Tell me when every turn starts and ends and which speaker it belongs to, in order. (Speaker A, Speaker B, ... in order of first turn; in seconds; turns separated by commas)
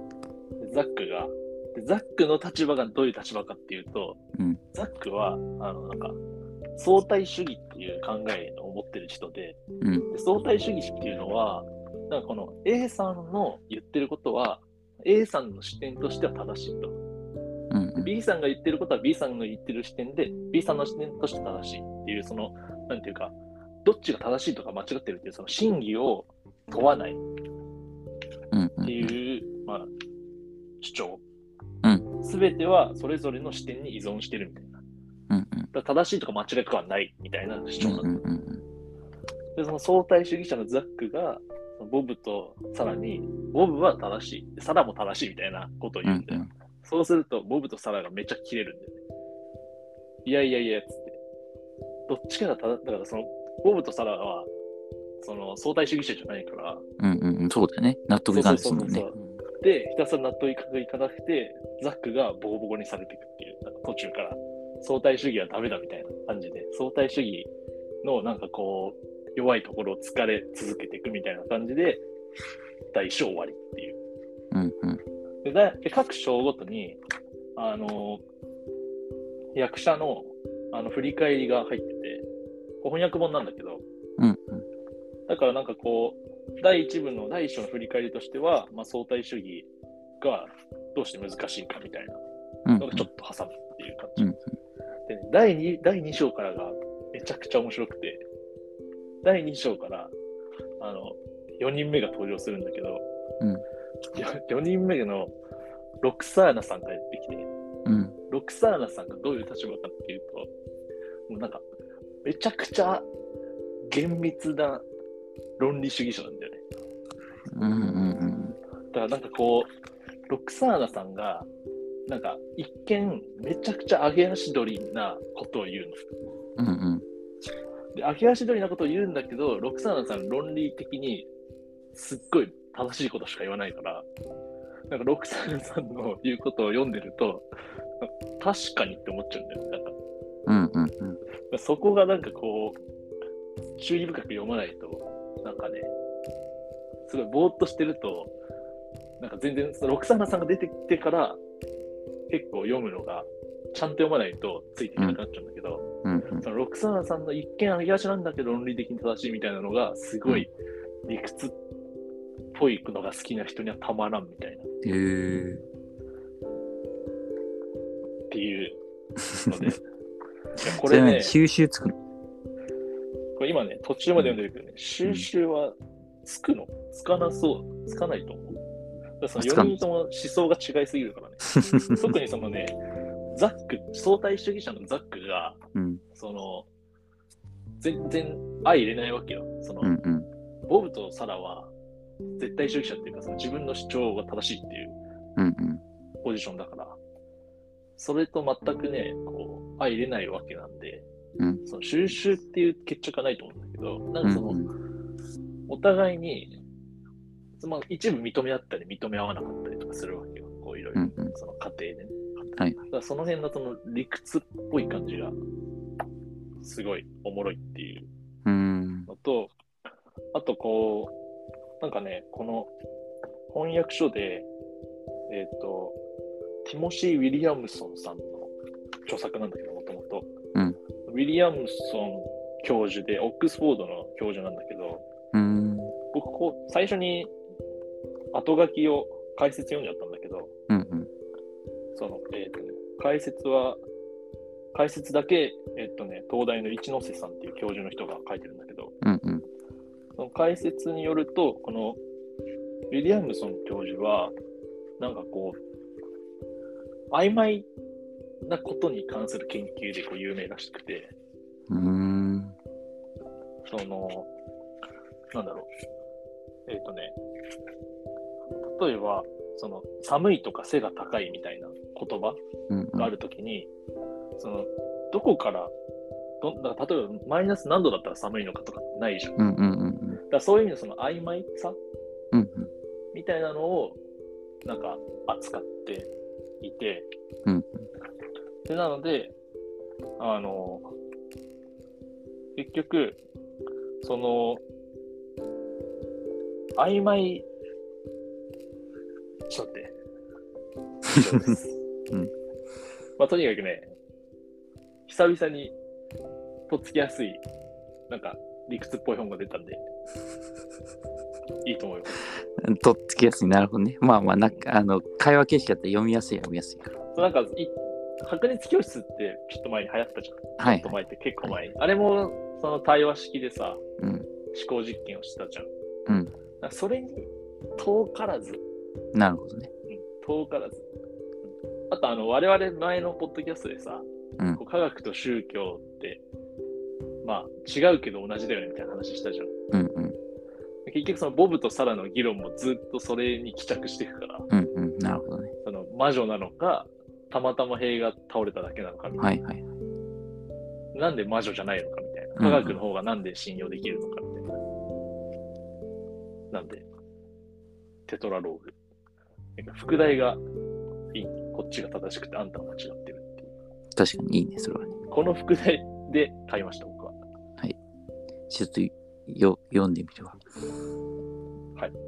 Speaker A: 0.6-4.2, Speaker A: 4.7-6.2, Speaker A: 6.8-16.9, Speaker B: 9.8-10.1, Speaker B: 17.7-18.1, Speaker A: 18.0-27.2, Speaker B: 28.5-29.1, Speaker A: 28.8-29.9, Speaker A: 30.8-31.2, Speaker A: 32.2-34.8, Speaker B: 35.3-35.7, Speaker A: 35.7-38.1, Speaker B: 37.8-38.6, Speaker A: 39.5-49.0, Speaker B: 46.0-46.5, Speaker A: 50.2-51.2, Speaker A: 52.1-54.5, Speaker A: 55.2-56.8, Speaker B: 57.0-59.4, Speaker A: 58.3-67.5, Speaker A: 68.0-72.0, Speaker A: 72.9-74.0, Speaker B: 74.5-75.0, Speaker A: 75.4-77.0, Speaker A: 77.5-78.2, Speaker A: 79.5-82.2, Speaker A: 82.8-83.8, Speaker B: 84.2-84.7, Speaker A: 85.3-89.7, Speaker A: 90.2-92.2, Speaker B: 92.7-93.1, Speaker A: 92.8-94.3, Speaker B: 94.2-94.5, Speaker A: 95.1-98.2, Speaker A: 99.2-100.1, Speaker A: 100.8-103.0, Speaker A: 104.1-105.3, Speaker A: 106.0-107.5, Speaker B: 107.8-108.2, Speaker A: 108.3-110.5, Speaker A: 111.3-111.6, Speaker A: 112.2-113.1, Speaker A: 113.9-114.8, Speaker A: 115.6-116.6, Speaker B: 117.5-118.6, Speaker A: 118.9-119.7, Speaker A: 120.3-121.5, Speaker A: 122.1-126.0, Speaker B: 126.6-127.0, Speaker A: 127.9-131.3, Speaker A: 131.9-134.1, Speaker A: 134.9-137.5, Speaker A: 138.0-139.9, Speaker B: 140.5-141.2, Speaker A: 141.5-142.8, Speaker A: 143.8-145.9, Speaker A: 147.1-148.3, Speaker A: 149.2-151.4, Speaker A: 152.3-155.8, Speaker B: 156.0-156.4, Speaker A: 156.4-160.5, Speaker A: 161.1-161.5, Speaker A: 162.5-164.7, Speaker B: 164.8-165.6, Speaker A: 168.3-168.8, Speaker A: 169.4-169.8, Speaker B: 170.6-171.9, Speaker A: 170.6-171.3, Speaker A: 173.4-178.6, Speaker A: 179.2-182.7, Speaker B: 179.4-179.8, Speaker B: 181.5-182.1, Speaker A: 183.3-185.6, Speaker B: 185.7-186.0, Speaker A: 186.1-186.7, Speaker A: 187.8-189.9, Speaker B: 189.8-190.3, Speaker A: 190.7-191.7, Speaker A: 192.4-194.9, Speaker B: 195.4-195.8, Speaker A: 196.2-197.0, Speaker A: 198.0-201.1, Speaker A: 201.7-204.6, Speaker B: 204.2-204.7, Speaker A: 205.7-206.5, Speaker A: 207.6-215.4, Speaker B: 210.9-211.3, Speaker A: 216.6-218.1, Speaker B: 218.4-219.1, Speaker A: 219.1-219.5, Speaker A: 220.3-221.1, Speaker A: 221.8-222.7, Speaker A: 223.5-224.5, Speaker A: 225.3-226.0, Speaker A: 226.6-228.5, Speaker A: 229.1-230.3, Speaker A: 231.1-235.0, Speaker B: 235.3-235.9, Speaker A: 236.1-237.3, Speaker A: 238.3-240.5, Speaker B: 240.7-241.1, Speaker A: 241.9-243.8, Speaker A: 244.7-248.9, Speaker B: 249.0-249.4, Speaker A: 250.2-252.0, Speaker A: 252.9-254.3, Speaker A: 255.0-255.6, Speaker A: 257.1-257.7, Speaker A: 258.4-261.1, Speaker B: 261.7-262.6, Speaker A: 263.6-264.3, Speaker A: 265.3-265.7, Speaker A: 266.7-267.1, Speaker A: 268.6-272.4, Speaker B: 272.7-273.1, Speaker A: 273.0-273.7, Speaker A: 274.4-275.7, Speaker A: 276.4-279.4, Speaker B: 279.4-280.2, Speaker A: 280.3-281.8, Speaker B: 282.3-282.7, Speaker A: 283.1-284.0, Speaker A: 284.6-287.1, Speaker B: 287.4-287.9, Speaker A: 288.7-289.3, Speaker A: 290.2-290.9, Speaker A: 292.6-293.2, Speaker A: 294.0-294.6, Speaker A: 296.8-297.4, Speaker A: 299.5-299.9, Speaker A: 301.1-301.8, Speaker A: 303.2-303.9, Speaker A: 305.1-305.7, Speaker A: 306.7-307.4, Speaker A: 308.1-309.8, Speaker A: 311.6-312.2, Speaker B: 312.3-317.0, Speaker A: 317.1-323.8, Speaker B: 320.6-321.6, Speaker B: 324.0-324.3, Speaker A: 324.5-325.7, Speaker B: 326.1-326.3, Speaker A: 326.6-328.6, Speaker B: 329.1-329.7, Speaker A: 329.9-330.8, Speaker A: 331.9-336.2, Speaker A: 337.2-339.5, Speaker B: 339.7-340.2, Speaker A: 340.9-344.5, Speaker B: 344.5-345.5, Speaker A: 345.6-349.3, Speaker B: 349.2-349.7, Speaker A: 350.9-354.6, Speaker B: 352.4-352.8, Speaker A: 356.5-356.9, Speaker A: 358.1-358.8, Speaker A: 359.6-360.4, Speaker A: 361.1-363.5, Speaker B: 363.9-365.0, Speaker A: 365.1-367.1, Speaker B: 368.5-370.4